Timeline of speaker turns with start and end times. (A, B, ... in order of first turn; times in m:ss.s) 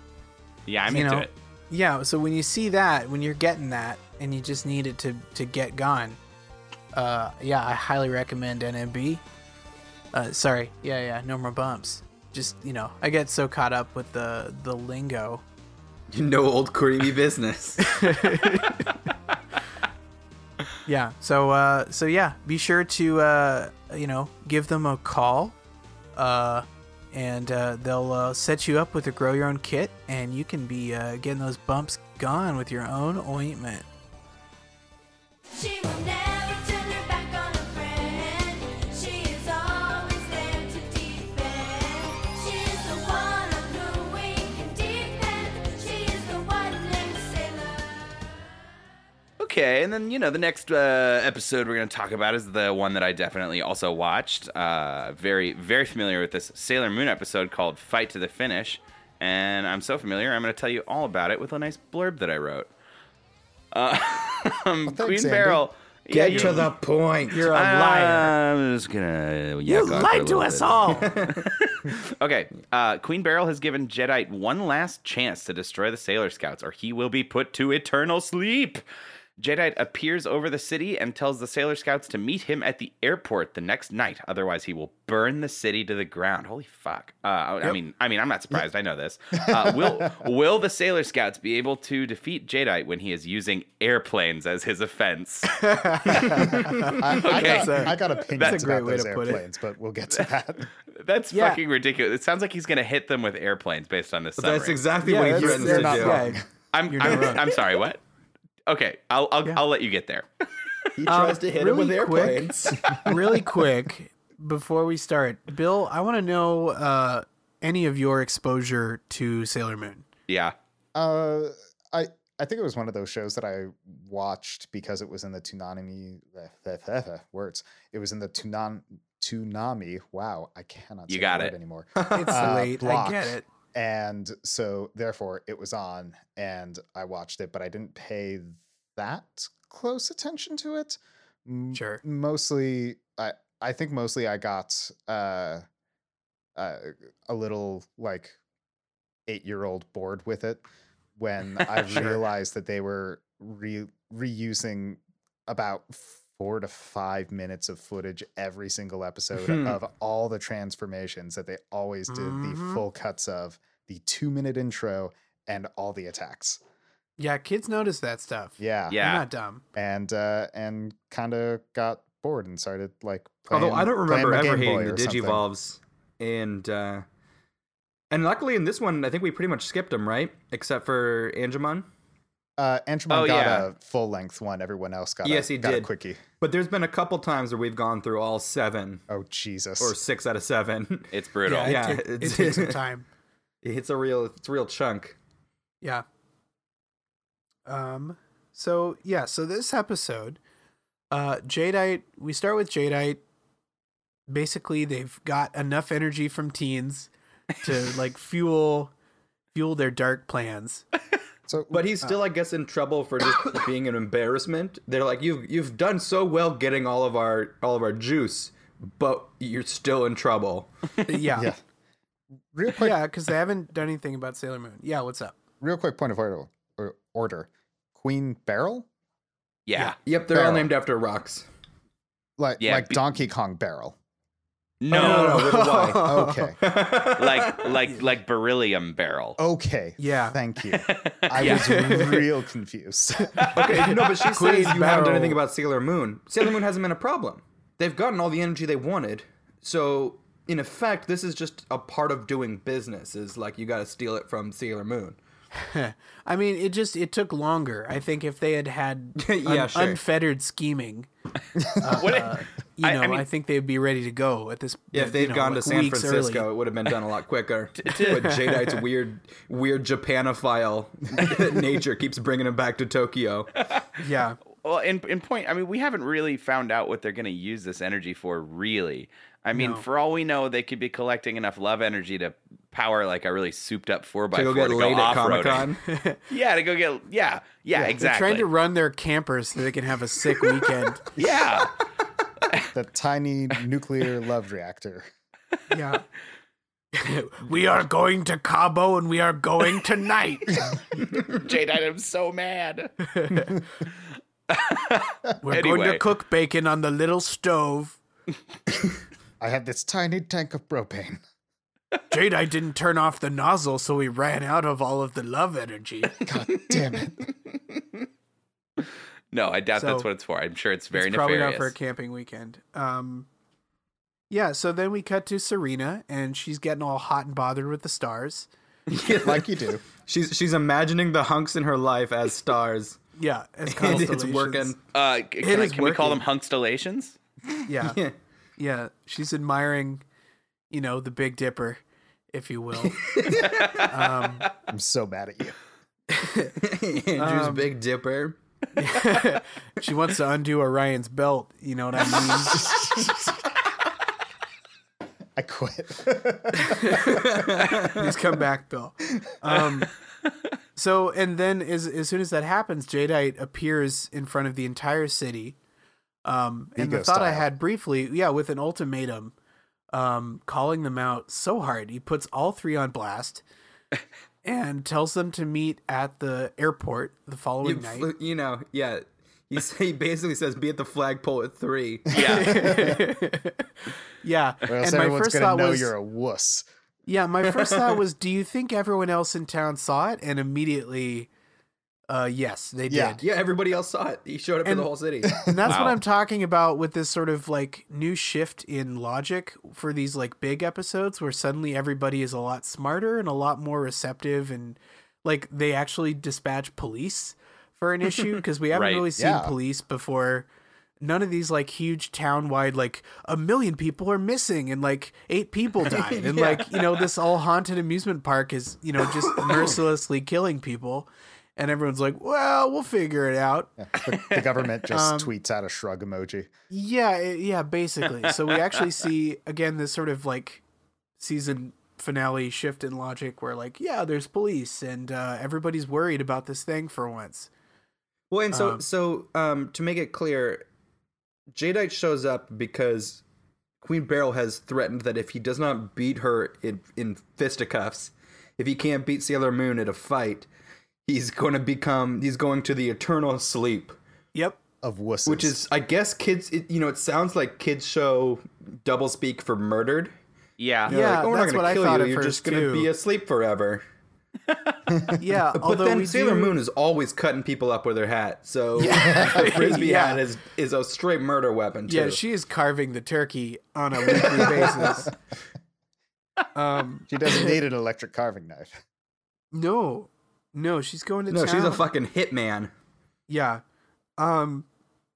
0:00.7-0:01.3 A
0:00.9-0:06.2 B
0:06.9-0:09.2 B
0:10.1-0:15.4 B
0:16.1-0:18.2 C
0:17.8-0:18.9 B
0:20.9-0:25.6 B
0:26.2-0:33.9 B
0:35.5-0:48.3 D
0:49.4-1:02.7 A
1:03.7-1:06.7 A
1:04.8-1:05.6 E
1:06.1-1:07.5 C
1:06.3-1:06.7 B
1:07.3-1:08.3 B
1:07.5-1:11.2 A
1:09.7-1:11.2 B
1:10.9-1:11.9 C
1:12.0-1:18.8 A
1:19.4-1:35.6 A
1:29.4-1:30.3 E
1:35.5-1:39.4 B
1:36.2-1:37.0 C
1:36.4-1:40.7 E
1:37.2-1:38.6 A
1:41.0-1:44.8 A
1:41.3-1:41.6 B
1:44.4-1:46.2 C
1:45.0-1:47.4 B
1:45.3-1:46.4 E
1:46.7-1:48.0 A
1:48.7-1:50.3 A
1:51.0-1:53.4 C
1:51.1-2:00.0 B
2:00.3-2:00.6 A
2:01.0-2:25.6 E
2:11.1-2:11.5 A
2:12.0-2:12.6 C
2:12.1-2:13.4 B
2:21.7-2:22.0 B
2:26.6-2:28.4 E
2:29.3-2:30.6 E
2:31.2-2:46.6 E
2:31.8-2:32.2 B
2:39.4-2:39.8 C
2:42.1-2:42.8 B
2:47.2-2:49.6 B
2:48.6-2:49.0 E
2:48.9-2:49.3 A
2:49.8-2:55.5 E
2:53.5-2:57.0 C
2:58.1-3:01.9 C
3:02.6-3:06.2 E
3:03.1-3:03.7 A
3:05.2-3:09.0 C
3:09.1-3:10.0 E
3:09.8-3:12.8 C
3:11.1-3:11.9 A
3:11.5-3:13.1 B
3:13.6-3:15.2 C
3:17.7-3:20.4 B
3:21.1-3:23.2 B
3:24.3-3:27.1 B
3:27.6-3:28.9 B
3:29.5-3:30.8 B
3:31.5-3:32.0 E
3:31.7-3:41.2 C
3:41.1-3:41.5 B
3:42.5-3:43.0 E
3:42.7-3:45.4 B
3:45.6-3:48.9 E
3:49.7-3:50.0 A
3:50.0-3:51.5 C
3:50.3-3:50.7 E
3:52.4-3:54.0 E
3:52.6-3:53.0 A
3:54.8-3:55.5 A
3:54.9-3:56.5 B
3:54.9-3:57.8 C
3:56.0-3:56.6 E
3:57.2-3:59.4 A
3:59.4-4:03.6 E
4:00.0-4:00.4 B
4:00.7-4:01.9 A
4:01.4-4:02.2 B
4:03.4-4:05.4 B
4:03.5-4:15.2 C
4:15.5-4:21.1 B
4:19.2-4:20.0 C
4:21.7-4:26.5 B
4:21.9-4:23.3 A
4:24.9-4:33.5 C
4:27.8-4:28.3 A
4:28.0-4:28.8 B
4:34.0-4:34.4 B
4:34.6-4:45.7 A
4:39.5-4:39.8 B
4:44.3-4:45.8 C
4:45.9-4:46.2 B
4:46.3-4:48.5 A
4:47.8-4:51.0 B
4:51.2-4:51.7 A
4:51.2-4:51.4 E
4:52.6-4:55.1 E
4:55.7-4:56.0 B
4:56.9-5:00.7 B
5:01.2-5:02.9 A
5:03.2-5:03.6 B
5:04.5-5:06.0 A
5:05.4-5:08.0 B
5:09.4-5:11.2 E
5:12.1-5:16.2 B
5:16.2-5:17.3 E
5:19.3-5:21.7 A
5:19.8-5:20.1 B
5:20.9-5:23.3 B
5:24.3-5:28.5 B
5:28.9-5:33.0 C
5:29.2-5:29.8 E
5:33.2-5:34.8 B
5:33.7-5:34.8 C
5:34.9-5:37.2 A
5:35.4-5:36.2 B
5:37.7-5:38.0 B
5:37.8-5:38.2 C
5:38.6-5:40.0 B
5:40.7-5:43.0 B
5:42.8-5:43.9 C
5:43.4-5:43.9 A
5:43.9-5:44.5 B
5:44.7-5:45.6 E
5:46.1-5:46.6 B
5:46.6-5:48.4 C
5:47.2-5:47.7 B
5:48.8-5:52.8 B
5:55.4-5:57.2 E
5:56.6-5:59.9 B
5:57.1-5:58.1 C
6:00.8-6:05.6 B
6:06.2-6:09.3 B
6:06.8-6:07.5 E
6:09.9-6:13.4 B
6:14.4-6:18.1 B
6:17.6-6:22.4 C
6:22.1-6:22.8 A
6:22.3-6:23.7 B
6:24.2-6:25.9 B
6:24.7-6:26.7 E
6:27.1-6:31.3 B
6:27.4-6:28.0 C
6:32.1-6:33.2 B
6:32.9-6:33.2 E
6:33.2-6:35.4 C
6:34.6-6:50.5 B
6:35.2-6:35.8 E
6:35.7-6:36.0 A
6:48.7-6:49.1 A
6:49.2-6:49.6 E
6:51.0-7:03.7 B
6:55.8-6:57.0 C
6:59.4-6:59.8 C
7:03.8-7:06.5 E
7:04.9-7:05.3 B
7:06.7-7:10.6 B
7:11.2-7:17.5 B
7:18.3-7:20.6 C
7:18.5-7:18.8 B
7:21.5-7:23.2 C
7:23.8-7:30.5 C
7:31.1-7:34.0 C
7:34.8-7:35.6 E
7:35.3-7:40.1 C
7:40.6-7:40.9 A
7:40.9-7:43.8 C
7:40.9-7:42.9 B
7:45.2-7:46.6 B
7:45.5-7:52.2 C
7:48.8-7:50.2 B
7:51.9-7:55.1 B
7:54.0-7:55.0 C
7:56.5-7:57.6 B
7:57.1-7:58.8 E
7:59.5-8:01.8 B
8:01.3-8:02.7 C
8:03.3-8:03.6 B
8:04.2-8:04.7 B